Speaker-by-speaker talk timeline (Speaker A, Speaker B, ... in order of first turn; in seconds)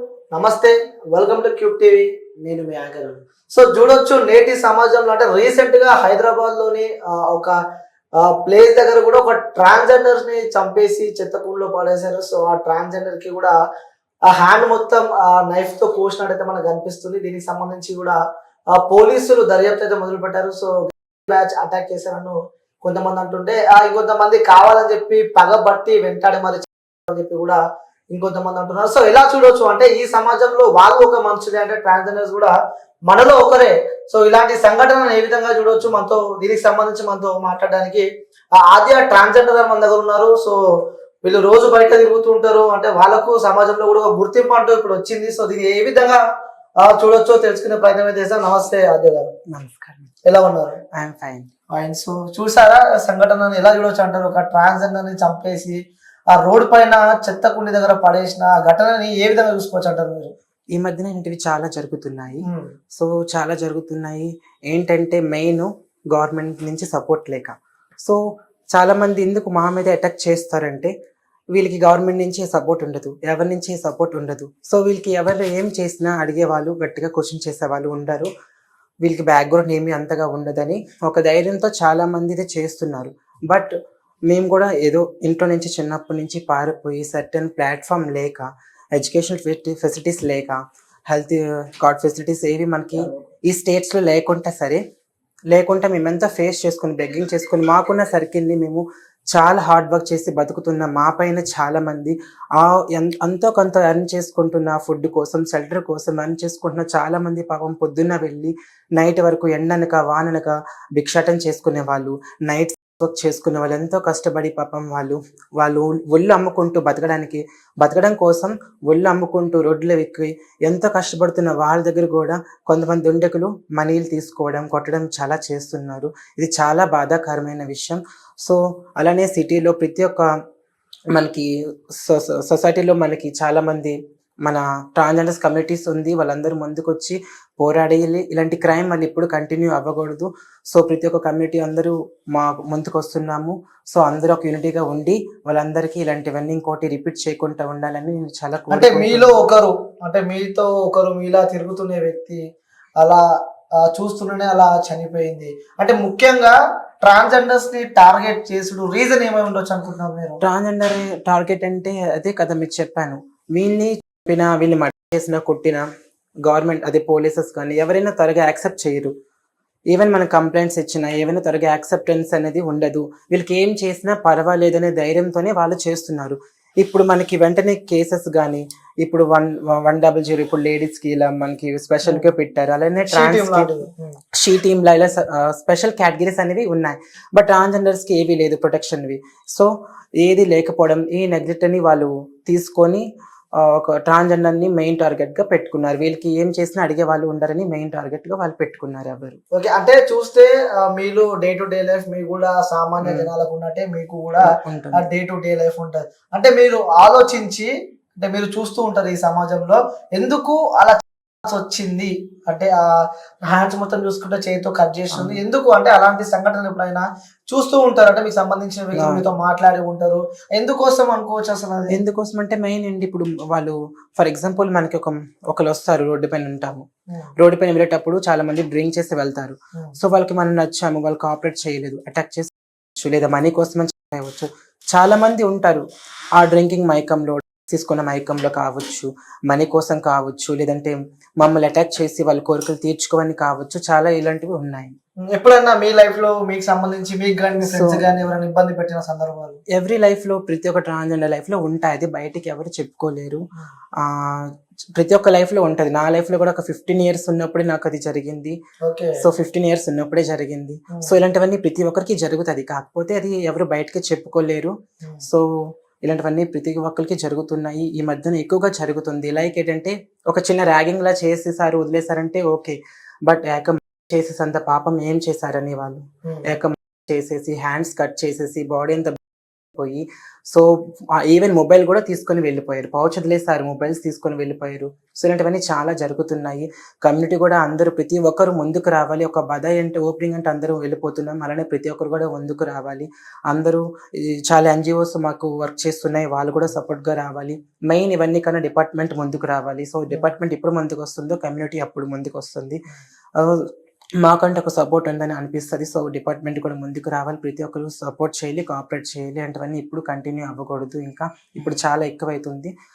Speaker A: 0.3-7.5, 8.3-13.5, 14.3-18.2, 18.8-27.6, 28.1-32.5, 33.1-38.0, 38.6-40.6, 41.2-46.2, 46.8-49.3, 50.3-50.8, 51.7-55.8, 56.3-60.3, 148.7-152.4, 153.9-160.4, 183.1-184.2, 199.6-207.7, 208.2-212.8, 213.5-222.0, 245.3-249.6, 258.9-259.2
Speaker B: 49.5-50.1, 51.0-51.5, 60.8-62.4, 62.9-68.2, 68.8-70.9, 71.5-78.3, 79.0-83.7, 84.3-88.5, 89.0-94.8, 95.5-130.2, 131.1-149.4, 160.4-165.8, 166.4-169.1, 169.9-183.7, 184.4-189.7, 190.2-193.1, 193.6-199.4, 203.0-203.3, 204.5-205.0, 215.1-215.4, 218.9-219.2, 221.9-226.8, 227.4-235.8, 236.4-244.9, 247.6-248.0, 249.7-253.4, 254.0-258.6, 259.2-265.4, 266.1-279.2, 279.8-280.7, 281.2-302.8, 303.4-303.7, 304.2-312.7